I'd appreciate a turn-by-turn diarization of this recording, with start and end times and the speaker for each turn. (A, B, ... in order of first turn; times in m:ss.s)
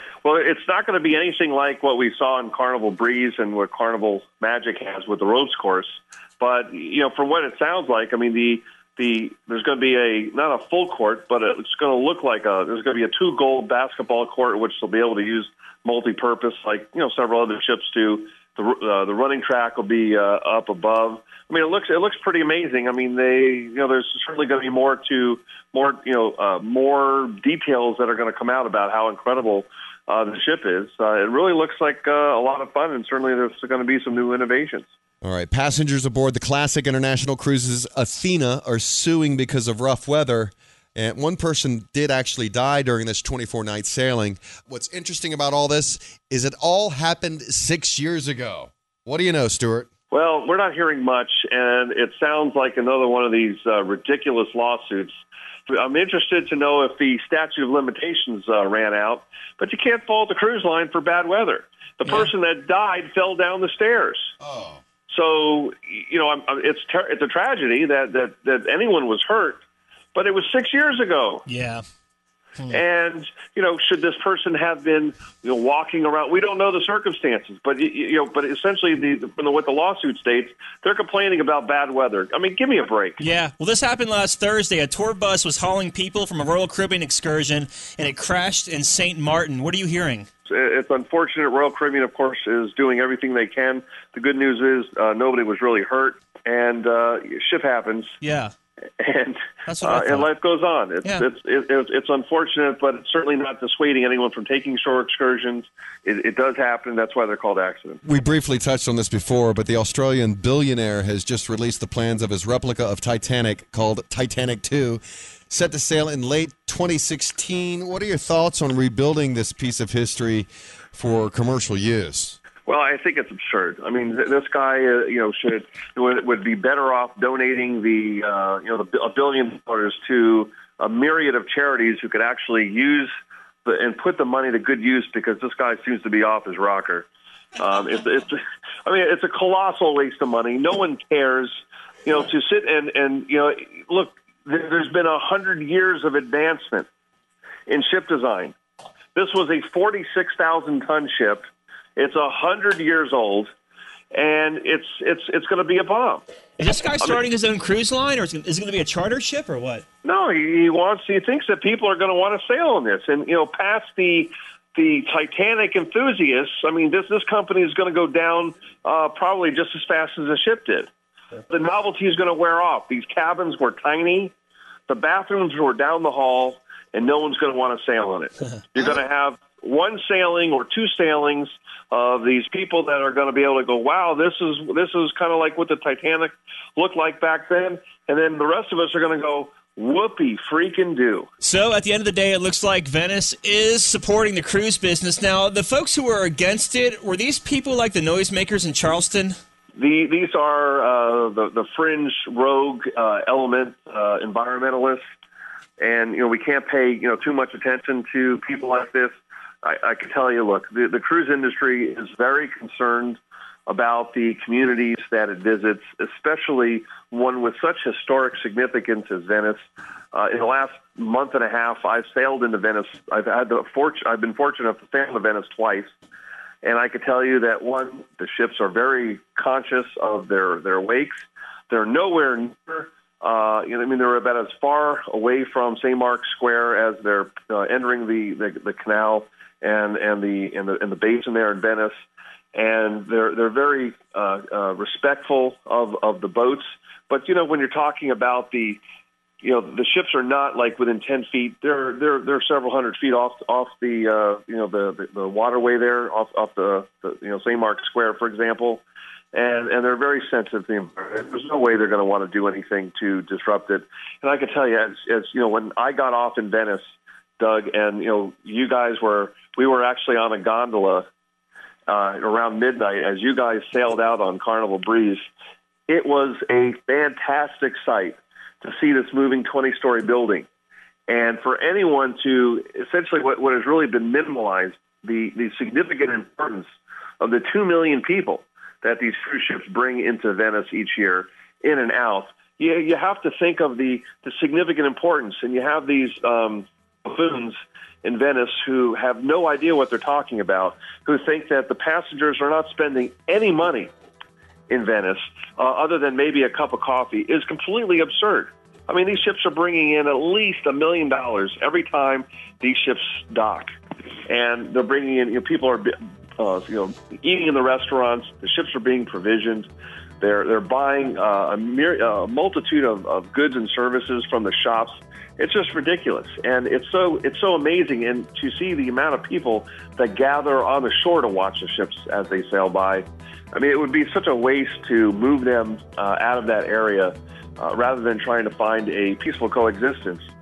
0:00.2-0:34.9 A
0:35.2-0:49.9 B
0:50.1-1:04.3 A
1:02.0-1:02.3 C
1:04.4-1:04.8 B
1:05.1-1:09.6 A
1:10.2-1:11.4 A
1:11.5-1:11.8 C
1:12.7-1:23.2 A
1:23.2-1:30.3 C
1:30.5-1:38.1 A
1:38.2-1:38.5 C
1:39.0-1:48.0 A
1:39.7-1:40.3 C
1:48.0-2:02.4 B
2:02.7-2:13.1 A
2:13.6-2:26.9 A
2:27.7-2:28.6 A
2:29.2-2:33.5 A
2:34.1-2:36.2 A
2:36.6-2:39.8 C
2:40.0-2:50.9 A
2:51.5-2:54.3 A
2:54.9-3:11.3 A
3:11.4-3:19.4 C
3:19.8-3:25.0 A
3:25.8-3:45.9 A
3:46.6-4:01.9 A
4:02.5-4:08.8 A
4:09.4-4:26.8 A
4:27.4-4:31.1 A
4:31.9-4:35.2 A
4:35.9-4:40.5 A
4:41.1-4:46.7 A
4:47.2-5:03.9 A
5:04.7-5:13.7 A
5:14.3-5:19.7 A
5:20.2-5:40.3 A